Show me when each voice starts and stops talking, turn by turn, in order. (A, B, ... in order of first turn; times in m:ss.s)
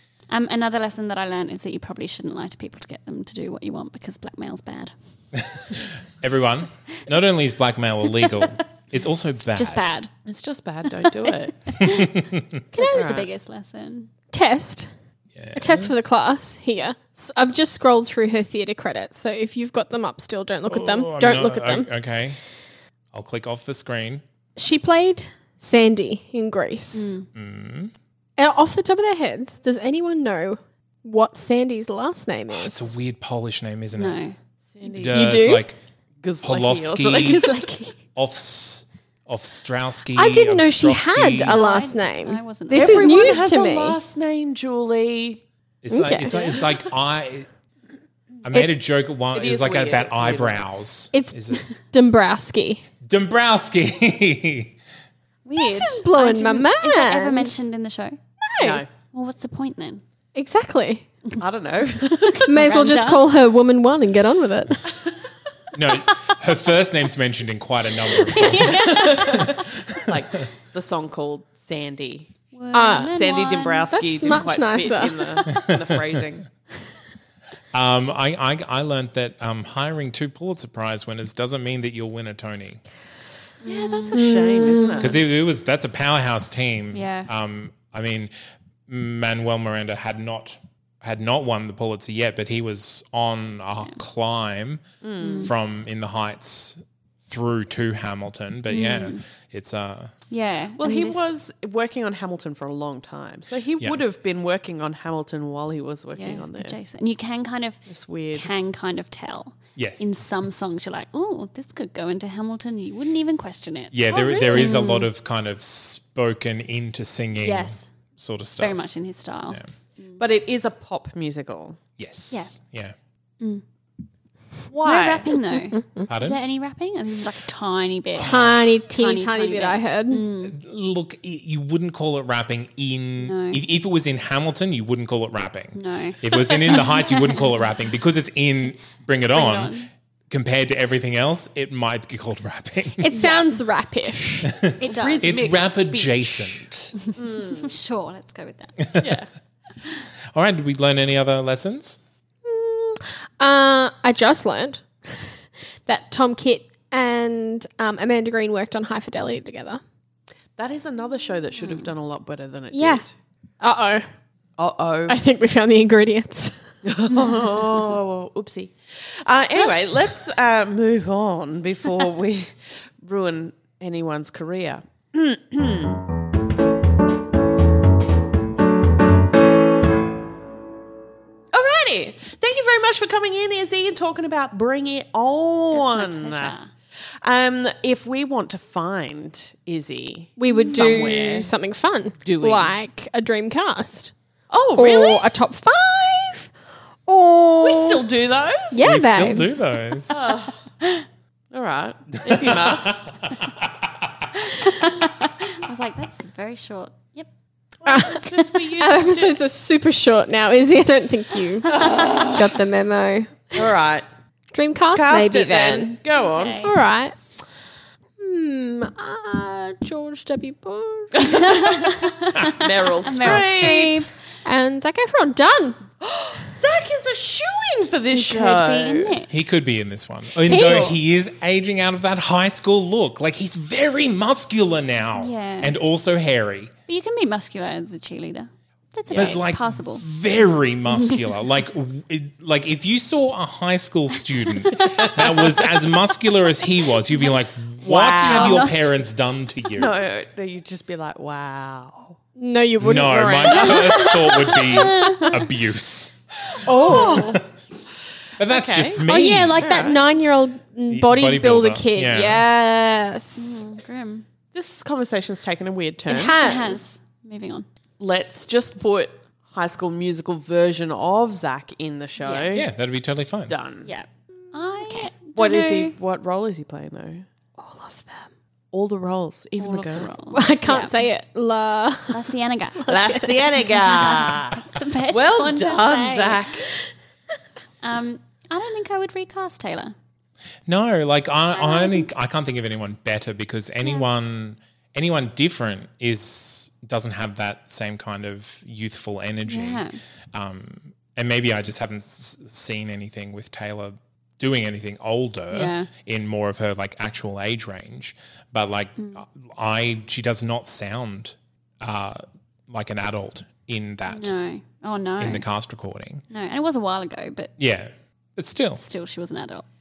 0:00.3-0:04.9 A
0:05.3-0:09.8 B
0:09.5-0:10.1 A
0:10.2-0:11.5 C
0:10.9-0:11.1 A
0:11.7-0:12.2 A
0:11.8-0:12.4 B
0:12.7-0:13.1 D
0:12.8-0:14.1 A
0:12.9-0:13.3 C
0:14.3-0:14.9 D
0:15.4-0:16.0 B
0:15.5-0:21.9 D
0:20.7-0:22.4 B
0:23.1-0:24.2 B
0:24.6-0:27.1 D
0:26.9-0:27.3 A
0:27.3-0:27.9 B
0:28.4-0:33.0 D
0:32.5-0:34.2 B
0:33.9-0:34.3 A
0:34.7-0:35.4 C
0:35.0-0:35.8 B
0:35.1-0:35.7 D
0:36.2-0:37.4 C
0:36.4-0:37.5 B
0:37.2-0:38.0 A
0:38.1-0:41.6 B
0:40.1-0:44.0 D
0:41.5-0:43.5 A
0:42.7-0:45.4 C
0:45.8-0:47.5 B
0:45.9-0:46.6 D
0:48.4-0:51.6 B
0:49.3-0:50.6 C
0:51.1-0:52.8 D
0:53.0-0:54.7 B
0:55.4-0:58.2 A
0:55.6-0:57.6 D
0:58.4-0:58.8 D
0:58.6-0:58.9 C
0:59.1-1:00.0 A
1:00.3-1:01.1 D
1:01.4-1:02.5 C
1:02.1-1:03.3 A
1:02.4-1:05.0 D
1:05.7-1:10.1 B
1:08.3-1:09.0 D
1:08.4-1:09.5 A
1:08.9-1:12.3 C
1:12.5-1:14.4 A
1:12.7-1:13.2 D
1:13.0-1:16.5 C
1:13.9-1:15.7 D
1:17.7-1:22.8 B
1:23.6-1:25.2 A
1:23.6-1:25.2 C
1:24.1-1:25.0 D
1:25.0-1:28.3 B
1:26.9-1:27.3 A
1:28.9-1:34.8 B
1:35.0-1:35.5 C
1:35.2-1:35.5 A
1:35.4-1:40.1 B
1:38.7-1:39.2 A
1:40.3-1:41.3 A
1:40.8-1:46.8 C
1:46.1-1:54.0 A
1:47.8-1:48.5 C
1:49.8-1:50.0 B
1:53.9-1:58.9 B
1:54.1-1:54.9 D
1:54.5-1:55.1 A
1:57.4-1:57.9 A
1:58.6-2:00.2 A
2:00.2-2:01.8 C
2:02.0-2:02.9 B
2:04.7-2:05.3 C
2:04.8-2:10.6 A
2:05.7-2:06.1 D
2:06.1-2:06.4 B
2:08.2-2:10.3 D
2:08.2-2:08.6 B
2:10.4-2:23.1 B
2:13.2-2:13.6 A
2:15.7-2:17.5 A
2:19.3-2:19.9 A
2:23.0-2:24.5 D
2:23.1-2:23.5 A
2:24.5-2:26.7 B
2:24.8-2:25.4 A
2:24.8-2:27.7 C
2:27.4-2:28.8 A
2:29.0-2:29.3 C
2:30.3-2:32.0 B
2:32.4-2:39.8 D
2:40.6-2:43.1 C
2:41.6-2:41.9 A
2:42.7-2:43.0 D
2:43.6-2:44.1 D
2:44.6-2:45.2 C
2:45.1-2:46.6 D
2:46.8-2:56.0 C
3:01.5-3:11.5 C
3:05.7-3:06.7 A
3:10.4-3:14.1 D
3:10.7-3:11.0 A
3:12.2-3:12.7 C
3:14.5-3:15.3 C
3:14.8-3:16.5 D
3:17.0-3:18.1 D
3:17.6-3:18.9 C
3:18.7-3:19.5 D
3:18.8-3:20.2 B
3:20.1-3:20.6 C
3:21.5-3:23.1 C
3:22.3-3:22.9 B
3:24.4-3:27.3 A
3:27.8-3:29.4 C
3:27.8-3:33.7 D
3:31.7-3:32.3 C
3:31.8-3:32.2 A
3:33.5-3:34.0 C
3:34.5-3:35.9 D
3:34.9-3:36.6 C
3:36.1-3:36.8 A
3:36.6-3:37.2 D
3:38.2-3:41.3 D
3:41.2-3:41.8 C
3:41.2-3:44.1 A
3:42.6-3:43.9 C
3:43.2-3:43.7 B
3:44.4-3:45.8 D
3:46.0-3:49.2 C
3:48.1-3:49.3 A
3:49.3-3:56.7 B
3:50.4-3:50.9 D
3:50.5-3:51.0 C
3:55.2-3:55.8 A
3:56.9-4:00.0 A
3:59.1-4:10.0 B
4:00.9-4:01.3 A
4:04.6-4:05.1 A
4:05.0-4:05.3 C
4:07.8-4:08.7 C
4:08.2-4:08.9 A
4:09.8-4:12.2 C
4:12.4-4:15.2 D
4:12.8-4:16.2 B
4:13.6-4:15.3 A
4:16.6-4:17.4 D
4:16.7-4:17.4 C
4:16.8-4:17.4 B
4:18.4-4:19.7 B
4:18.4-4:19.0 C
4:19.0-4:23.6 D
4:19.5-4:20.0 C
4:20.9-4:22.5 B
4:23.3-4:24.2 A
4:24.5-4:26.4 C
4:26.1-4:26.8 D
4:26.4-4:27.6 A
4:28.0-4:32.7 C
4:32.2-4:32.6 A
4:32.5-4:33.5 B
4:33.5-4:33.9 C
4:33.8-4:35.9 A
4:34.8-4:35.1 D
4:35.3-4:37.2 C
4:37.6-4:38.3 D
4:38.7-4:40.1 C
4:39.6-4:41.0 A
4:40.3-4:43.7 D
4:42.1-4:42.8 A
4:42.9-4:46.7 C
4:43.8-4:46.4 A
4:47.8-4:49.9 A
4:50.7-5:14.3 B
4:51.5-4:52.1 A
4:59.4-5:00.0 A
5:05.5-5:05.9 A
5:09.0-5:09.2 A
5:14.0-5:15.4 A
5:15.2-5:16.2 B
5:16.3-5:17.5 A
5:17.6-5:18.8 B
5:18.8-5:19.6 A